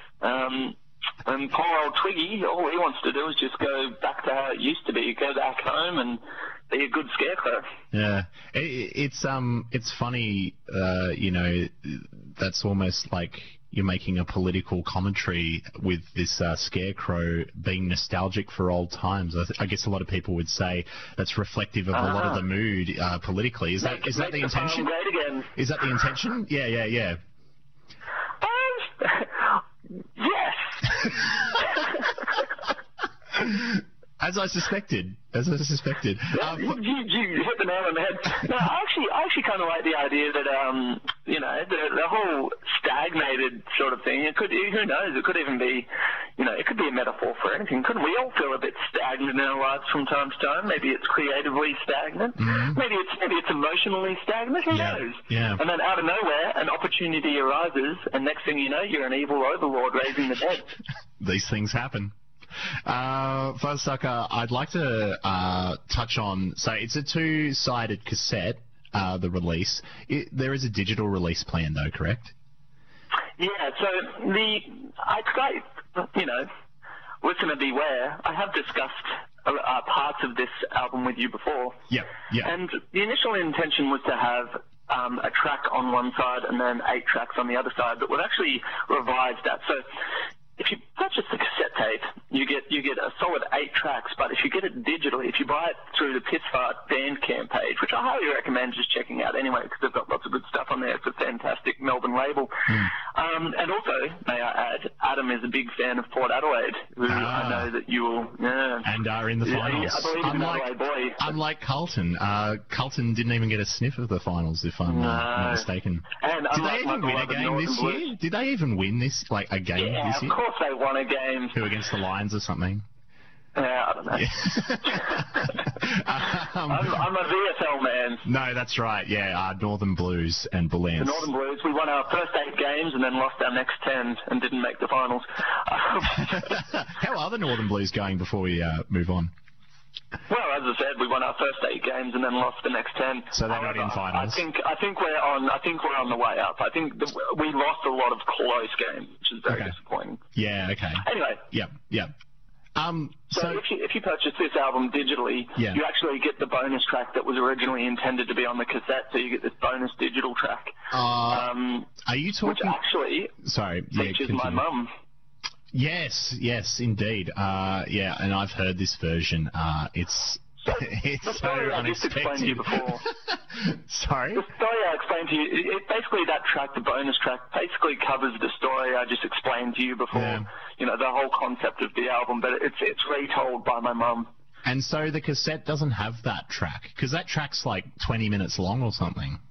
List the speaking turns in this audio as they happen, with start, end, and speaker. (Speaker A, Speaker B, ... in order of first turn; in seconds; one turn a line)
Speaker A: 0.2-7.7
Speaker B: 7.9-24.9
Speaker A: 21.9-22.4
Speaker A: 23.8-25.5
Speaker B: 25.5-27.2
Speaker A: 28.4-29.6
Speaker A: 30.1-32.4
Speaker B: 33.3-36.8
Speaker A: 36.3-60.7
Speaker B: 52.4-52.8
Speaker B: 54.7-55.6
Speaker B: 61.2-62.1
Speaker B: 62.9-72.3
Speaker A: 73.4-76.5
Speaker A: 77.2-81.8
Speaker B: 81.9-82.5
Speaker A: 82.4-89.8
Speaker A: 90.6-108.9
Speaker B: 102.7-102.9
Speaker B: 107.1-107.7
Speaker B: 108.8-120.4
Speaker A: 109.4-111.3
Speaker A: 114.8-115.7
Speaker A: 116.2-118.1
Speaker A: 119.7-121.6
Speaker B: 121.5-122.8
Speaker A: 123.5-125.2
Speaker B: 124.1-127.0
Speaker A: 126.7-128.2
Speaker B: 128.2-131.3
Speaker A: 131.0-136.6
Speaker B: 136.3-139.3
Speaker A: 140.3-150.2
Speaker B: 143.3-144.4
Speaker B: 149.5-149.7
Speaker B: 150.3-152.1
Speaker A: 151.0-151.4
Speaker B: 152.8-153.6
Speaker A: 153.3-160.7
Speaker B: 160.9-161.5
Speaker A: 161.3-161.9
Speaker B: 162.0-162.8
Speaker A: 162.4-163.3
Speaker B: 163.4-164.6
Speaker A: 163.9-164.9
Speaker B: 165.7-174.5
Speaker A: 170.6-173.0
Speaker A: 174.3-184.3
Speaker B: 180.1-180.4
Speaker B: 184.6-189.4